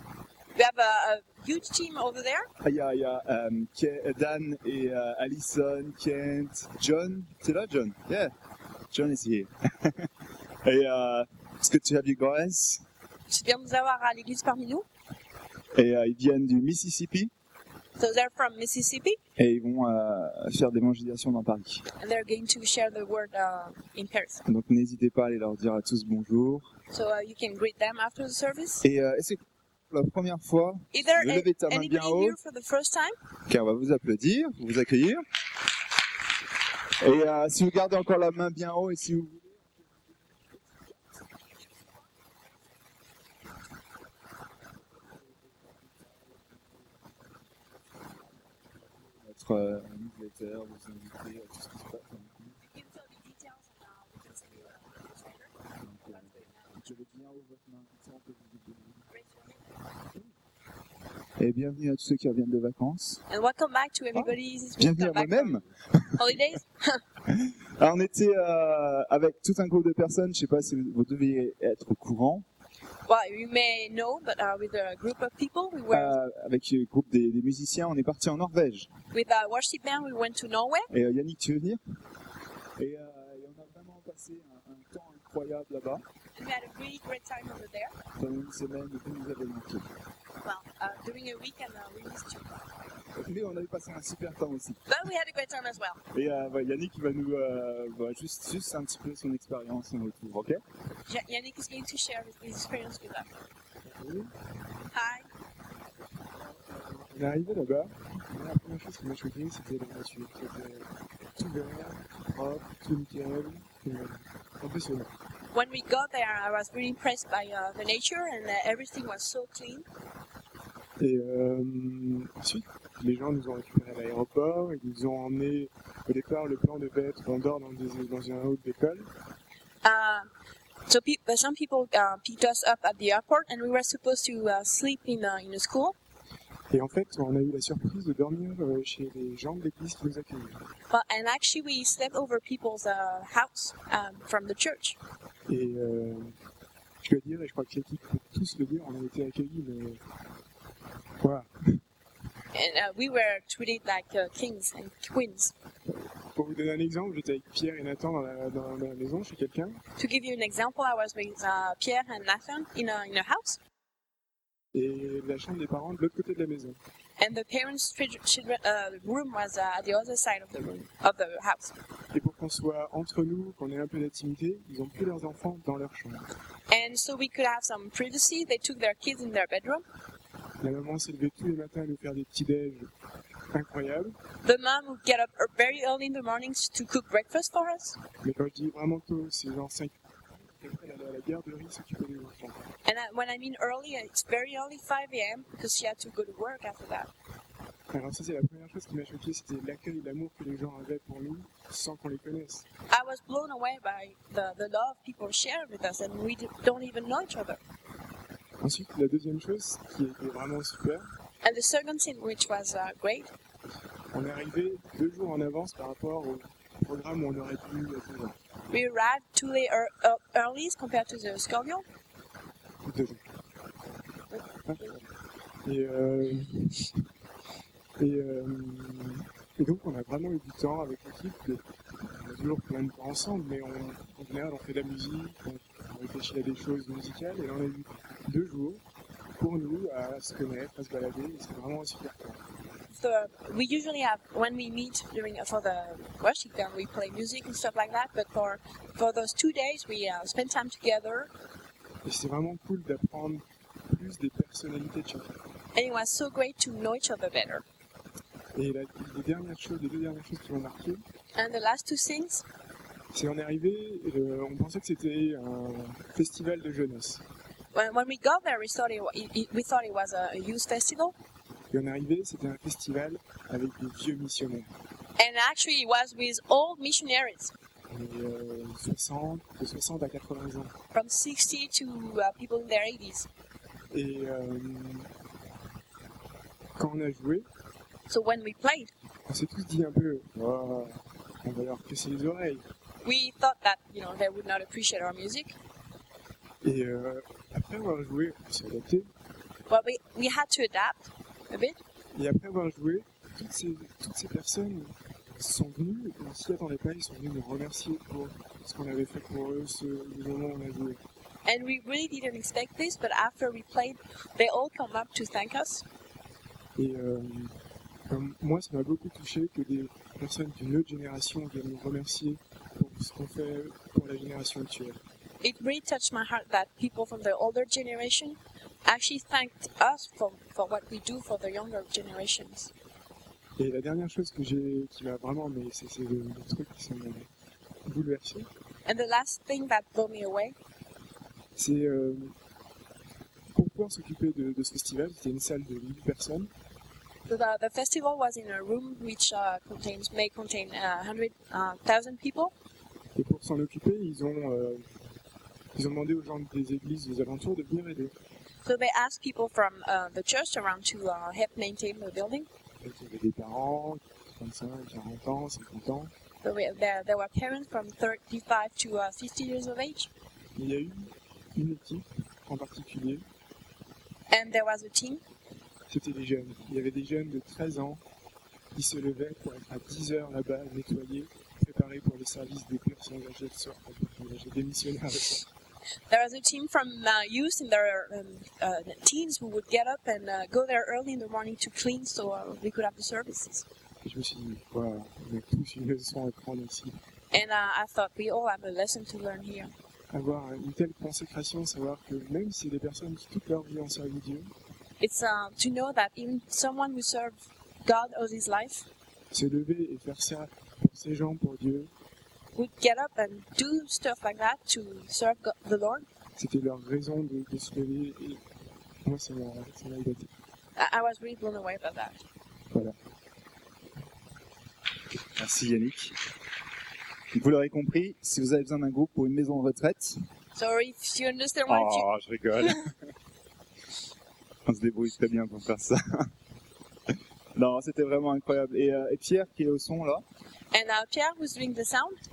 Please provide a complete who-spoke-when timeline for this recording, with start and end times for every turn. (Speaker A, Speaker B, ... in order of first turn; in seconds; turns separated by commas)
Speaker A: 0.6-2.5, Speaker B: 2.6-8.3, Speaker B: 8.9-10.1, Speaker B: 10.6-12.8, Speaker A: 13.3-14.9, Speaker B: 15.7-17.3, Speaker A: 18.0-19.2, Speaker B: 19.4-21.8, Speaker A: 22.0-24.4, Speaker B: 24.4-26.7, Speaker A: 26.9-28.8, Speaker B: 28.8-32.4, Speaker A: 30.9-33.1, Speaker B: 33.5-35.2, Speaker B: 37.0-41.0, Speaker B: 45.0-47.4, Speaker B: 47.9-52.6, Speaker A: 52.6-55.5, Speaker B: 55.8-59.0, Speaker A: 56.1-57.0, Speaker A: 59.1-59.7, Speaker B: 61.4-63.2, Speaker A: 63.3-67.0, Speaker B: 64.2-66.2, Speaker B: 67.3-72.5, Speaker A: 73.1-76.2, Speaker B: 75.9-78.9, Speaker A: 79.1-80.9, Speaker B: 80.9-81.8, Speaker B: 82.8-86.0, Speaker A: 86.4-87.9, Speaker B: 88.2-89.9, Speaker A: 90.4-92.7, Speaker B: 93.2-94.8, Speaker A: 94.9-96.0, Speaker B: 96.1-100.6, Speaker A: 101.1-103.3, Speaker C: 103.8-104.3, Speaker A: 104.9-105.3, Speaker C: 106.3-115.1, Speaker A: 115.5-119.9, Speaker C: 121.0-129.1, Speaker A: 129.8-130.3, Speaker A: 130.9-136.0, Speaker C: 136.7-140.6, Speaker A: 140.9-145.0, Speaker C: 145.5-146.3, Speaker C: 147.0-150.0, Speaker C: 151.2-151.8, Speaker A: 152.5-155.5, Speaker C: 155.9-159.8, Speaker A: 160.0-163.6, Speaker C: 164.7-166.8, Speaker A: 167.2-171.7, Speaker C: 172.1-176.3, Speaker A: 176.7-179.8, Speaker C: 180.6-182.9, Speaker C: 183.5-184.2, Speaker A: 184.4-188.0, Speaker C: 188.2-192.6, Speaker A: 192.8-197.1, Speaker C: 197.9-202.7, Speaker A: 202.9-207.6, Speaker C: 208.6-211.1, Speaker A: 211.4-213.3, Speaker C: 214.1-218.3, Speaker A: 218.7-221.8, Speaker C: 222.8-223.2, Speaker A: 224.3-224.9, Speaker C: 224.7-225.0, Speaker C: 225.7-227.0, Speaker C: 228.0-238.8, Speaker C: 239.4-242.4, Speaker A: 242.9-251.3, Speaker C: 252.0-255.3, Speaker A: 255.8-257.6, Speaker C: 258.5-261.0, Speaker A: 261.4-262.4, Speaker C: 263.1-267.2, Speaker A: 267.7-271.1, Speaker C: 271.7-274.7, Speaker A: 275.2-277.5, Speaker C: 277.9-280.7, Speaker A: 280.9-283.3, Speaker C: 283.9-285.1, Speaker C: 286.8-287.5, Speaker A: 288.1-288.9, Speaker C: 289.3-292.6, Speaker A: 293.0-295.6, Speaker C: 296.6-299.1, Speaker A: 299.7-301.8, Speaker C: 302.1-311.0, Speaker A: 311.5-315.9, Speaker C: 316.8-317.5, Speaker C: 318.1-325.0, Speaker A: 325.4-332.7, Speaker C: 333.6-337.3, Speaker C: 337.9-338.5, Speaker A: 338.9-340.6, Speaker C: 341.6-342.3, Speaker C: 343.5-346.5, Speaker A: 347.3-352.5, Speaker C: 353.1-354.9, Speaker C: 355.8-358.1, Speaker A: 358.6-362.5, Speaker C: 362.8-366.1, Speaker A: 366.4-370.1, Speaker C: 370.6-373.2, Speaker A: 374.3-375.2, Speaker C: 375.9-378.0, Speaker C: 378.8-385.5, Speaker A: 386.1-393.6, Speaker C: 394.0-397.0, Speaker A: 397.3-399.7, Speaker C: 400.1-404.5, Speaker A: 405.0-408.9, Speaker C: 409.3-411.9, Speaker A: 412.6-416.1, Speaker C: 416.4-418.4, Speaker C: 419.0-420.3, Speaker A: 420.8-422.2, Speaker B: 425.4-426.2, Speaker B: 427.3-430.2, Speaker A: 430.5-432.1, Speaker B: 431.7-432.9, Speaker B: 434.7-436.3, Speaker B: 437.6-440.2, Speaker A: 440.7-442.2